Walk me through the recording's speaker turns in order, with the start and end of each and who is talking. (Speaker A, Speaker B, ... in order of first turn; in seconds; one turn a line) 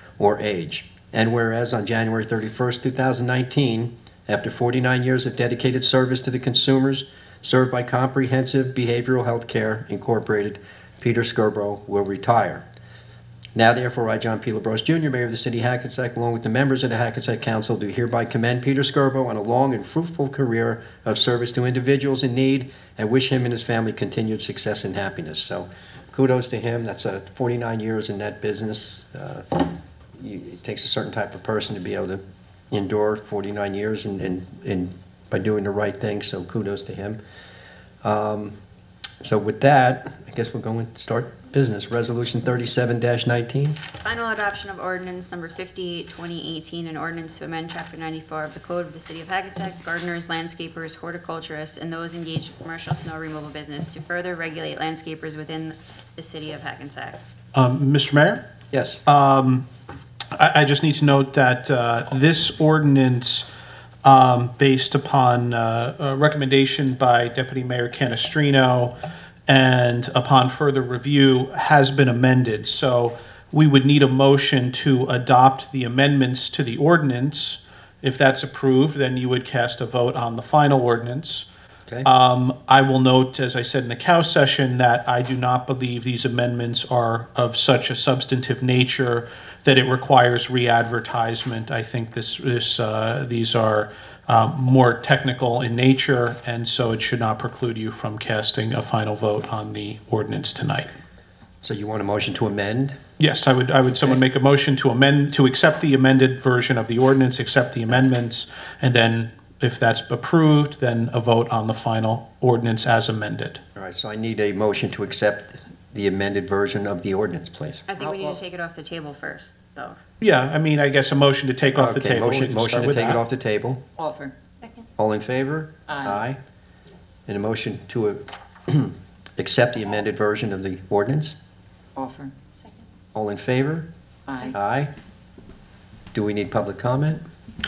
Speaker A: 0.2-12.7
Speaker A: 13.6-29.5
Speaker A: 30.2-37.2
Speaker A: 38.0-38.6
Speaker A: 39.2-43.8
Speaker B: 44.0-57.2
Speaker C: 57.5-58.4
Speaker A: 58.7-59.0
Speaker C: 59.1-59.6
Speaker C: 60.4-63.5
Speaker C: 64.0-68.9
Speaker C: 69.5-81.5
Speaker C: 82.0-100.9
Speaker A: 101.6-103.0
Speaker C: 103.2-113.6
Speaker A: 113.8-117.8
Speaker B: 117.9-120.0
Speaker D: 118.0-118.4
Speaker C: 120.2-123.2
Speaker A: 121.8-123.8
Speaker D: 124.0-124.3
Speaker A: 125.0-126.4
Speaker D: 125.9-126.2
Speaker A: 127.3-131.4
Speaker D: 132.0-132.3
Speaker A: 133.1-133.9
Speaker D: 134.3-134.6
Speaker A: 134.5-134.9
Speaker A: 136.1-137.2